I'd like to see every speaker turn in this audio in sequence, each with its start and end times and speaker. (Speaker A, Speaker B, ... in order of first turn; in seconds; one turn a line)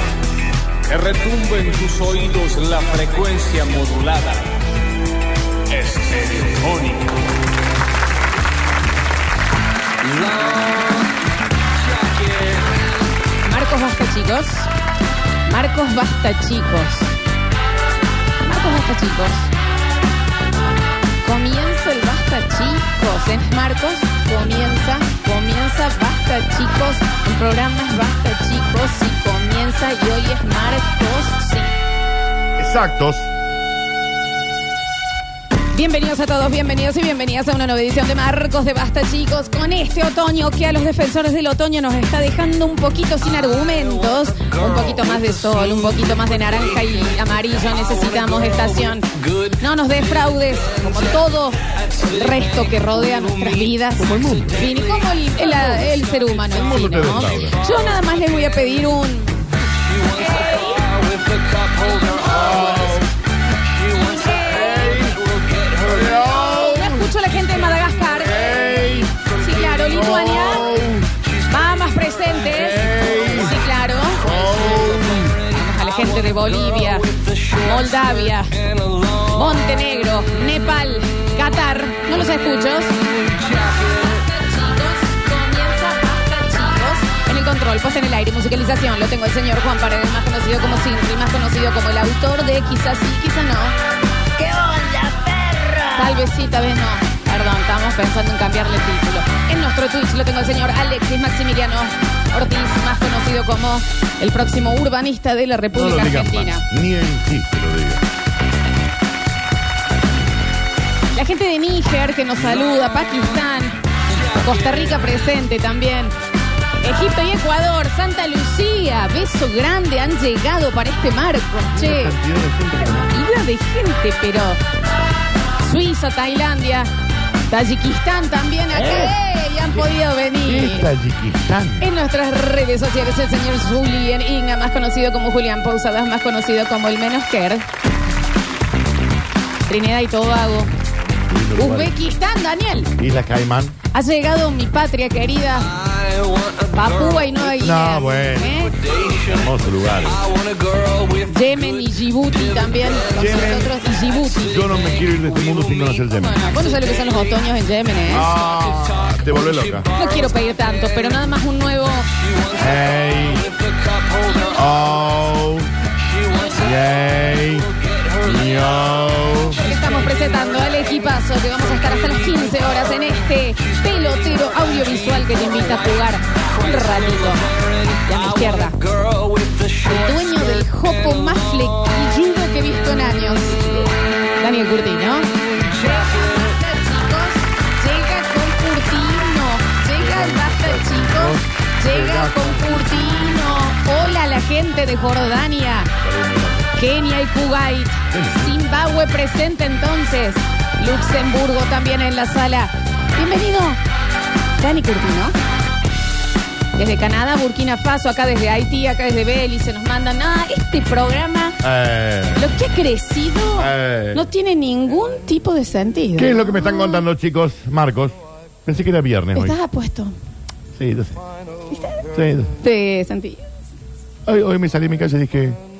Speaker A: 0.9-4.5
Speaker A: 5.8-7.2
Speaker A: 10.0-11.0
Speaker A: 11.8-12.7
Speaker B: 13.4-14.7
Speaker B: 15.4-17.2
Speaker B: 18.4-19.5
Speaker B: 21.2-31.8
Speaker C: 32.6-33.3
Speaker B: 35.7-59.4
Speaker A: 44.6-46.0
Speaker A: 47.9-48.6
Speaker C: 54.0-54.7
Speaker A: 54.7-55.1
Speaker C: 55.8-57.6
Speaker A: 59.9-62.2
Speaker B: 60.1-60.9
Speaker B: 61.8-63.0
Speaker C: 62.2-63.1
Speaker B: 63.9-65.1
Speaker A: 63.9-64.4
Speaker C: 64.4-65.2
Speaker A: 64.9-66.2
Speaker C: 65.7-67.2
Speaker B: 66.3-70.7
Speaker C: 68.1-69.1
Speaker C: 69.8-71.1
Speaker B: 71.5-74.3
Speaker C: 72.5-73.6
Speaker C: 74.2-75.4
Speaker A: 74.3-75.3
Speaker B: 75.4-78.6
Speaker A: 77.0-77.6
Speaker B: 79.1-83.0
Speaker B: 83.5-93.8
Speaker D: 94.3-96.3
Speaker B: 95.9-106.6
Speaker C: 105.7-108.0
Speaker B: 111.1-116.1
Speaker B: 116.8-122.2
Speaker C: 121.7-123.2
Speaker B: 123.0-124.6
Speaker B: 125.6-126.9
Speaker B: 127.5-130.9
Speaker C: 128.7-129.2
Speaker C: 130.4-131.9
Speaker B: 131.8-137.7
Speaker B: 139.7-140.7
Speaker C: 141.3-141.9
Speaker B: 141.6-142.9
Speaker C: 143.0-143.8
Speaker B: 143.9-145.8
Speaker A: 145.8-147.3
Speaker B: 146.7-148.9
Speaker C: 147.4-150.2
Speaker A: 148.8-149.4
Speaker A: 150.1-151.8
Speaker B: 151.2-158.3
Speaker C: 153.1-153.8
Speaker C: 154.4-156.4
Speaker C: 158.1-159.9
Speaker A: 158.7-159.9
Speaker B: 159.9-162.1
Speaker A: 162.3-164.5
Speaker C: 162.5-163.5
Speaker C: 164.4-165.7
Speaker A: 166.1-166.6
Speaker B: 166.3-166.6
Speaker C: 166.5-169.7
Speaker A: 167.7-168.2
Speaker B: 169.6-178.8
Speaker A: 176.7-180.1
Speaker B: 179.8-183.8
Speaker C: 183.6-183.9
Speaker B: 184.4-195.9
Speaker C: 189.9-193.4
Speaker C: 196.0-196.7
Speaker B: 196.8-203.8
Speaker C: 198.1-198.6
Speaker B: 204.6-205.3
Speaker B: 206.8-211.6
Speaker C: 211.6-212.5
Speaker B: 212.3-217.0
Speaker C: 213.6-214.3
Speaker C: 216.2-219.6
Speaker B: 219.3-220.1
Speaker C: 220.7-221.2
Speaker B: 221.7-222.1
Speaker C: 222.1-222.5
Speaker B: 222.6-223.4
Speaker C: 224.2-225.6